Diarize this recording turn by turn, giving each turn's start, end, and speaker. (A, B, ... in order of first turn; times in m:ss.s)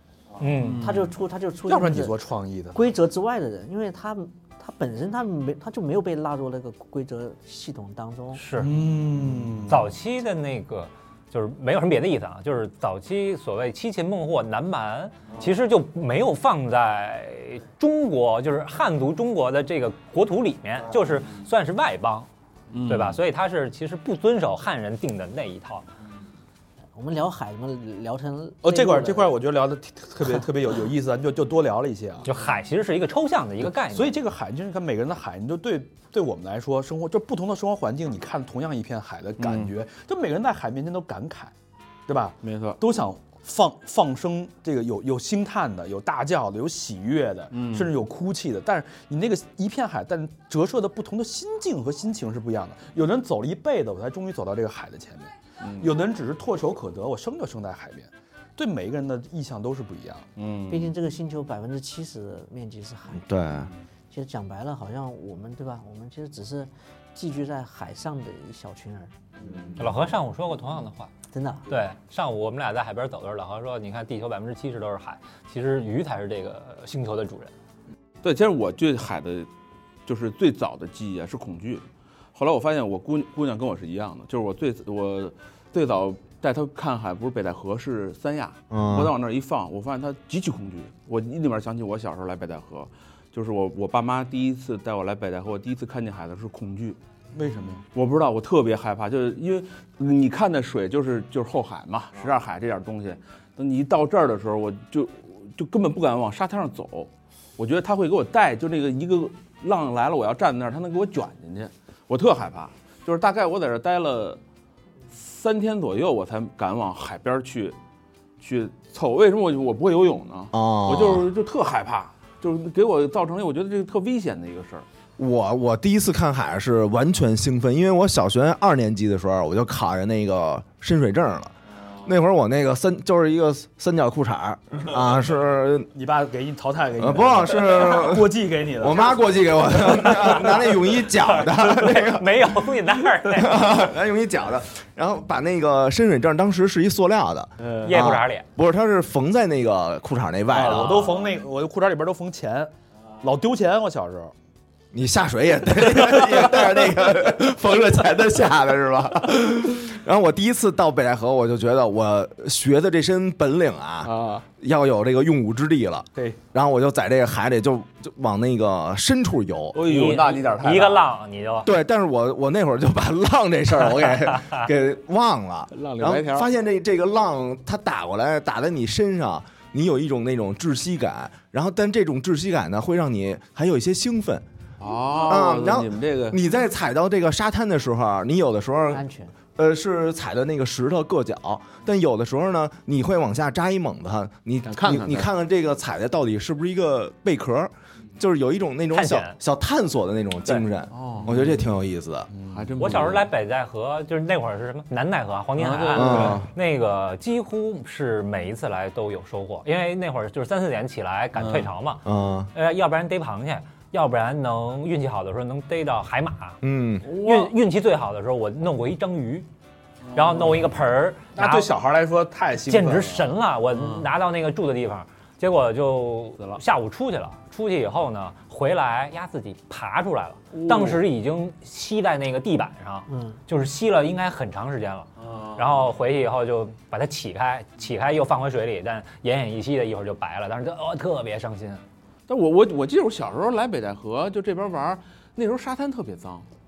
0:00.4-0:00.9 A
0:00.4-0:01.1 B
0:00.8-0:08.4 C
0:01.7-0:02.8 D
0:08.4-0:08.7 A
0:08.6-0:09.9 D
0:09.7-0:22.3 A
0:22.7-0:23.2 B
0:22.8-0:25.8 A
0:27.0-0:29.3 C
0:28.6-0:32.2 D
0:32.2-0:34.2 A
0:33.7-0:41.5 D
0:39.4-0:39.7 B
0:42.1-1:00.3 D
0:42.4-0:42.8 B
0:47.5-0:47.9 B
0:55.6-0:55.9 B
1:00.4-1:00.9 B
1:00.7-1:03.2 C
1:03.1-1:03.7 E
1:04.1-1:09.1 C
1:09.4-1:09.8 B
1:09.8-1:11.1 A
1:11.3-1:11.6 C
1:11.7-1:17.5 A
1:18.2-1:19.5 B
1:20.0-1:37.0 B
1:28.7-1:29.1 E
1:37.3-1:37.8 D
1:37.9-1:54.4 B
1:55.1-1:57.8 B
1:58.4-2:04.8 B
2:00.5-2:01.3 E
2:05.2-2:15.9 E
2:15.9-2:19.2 D
2:17.0-2:22.5 E
2:20.0-2:20.4 D
2:21.1-2:23.6 A
2:23.3-2:31.1 E
2:27.8-2:28.4 A
2:30.5-2:34.3 D
2:30.6-2:30.9 B
2:34.9-2:49.8 E
2:44.1-2:44.4 B
2:49.7-2:51.1 B
2:49.8-2:51.7 A
2:51.6-3:04.4 E
2:55.7-2:56.5 B
3:04.8-3:06.4 B
3:05.2-3:09.0 E
3:08.9-3:09.3 C
3:09.6-3:22.3 E
3:14.6-3:15.3 B
3:18.9-3:19.4 A
3:20.5-3:21.7 B
3:22.3-3:22.7 D
3:22.5-3:23.3 B
3:22.8-3:39.5 A
3:25.6-3:26.4 B
3:25.9-3:26.5 E
3:31.4-3:31.7 B
3:32.0-3:32.5 E
3:36.6-3:37.0 E
3:37.0-3:37.5 B
3:40.1-3:40.6 B
3:40.1-3:41.7 A
3:41.4-3:43.3 D
3:42.7-4:01.8 A
3:43.7-3:44.1 B
3:50.5-3:51.0 B
3:53.1-3:53.4 C
3:55.2-3:55.9 B
4:02.3-4:06.4 B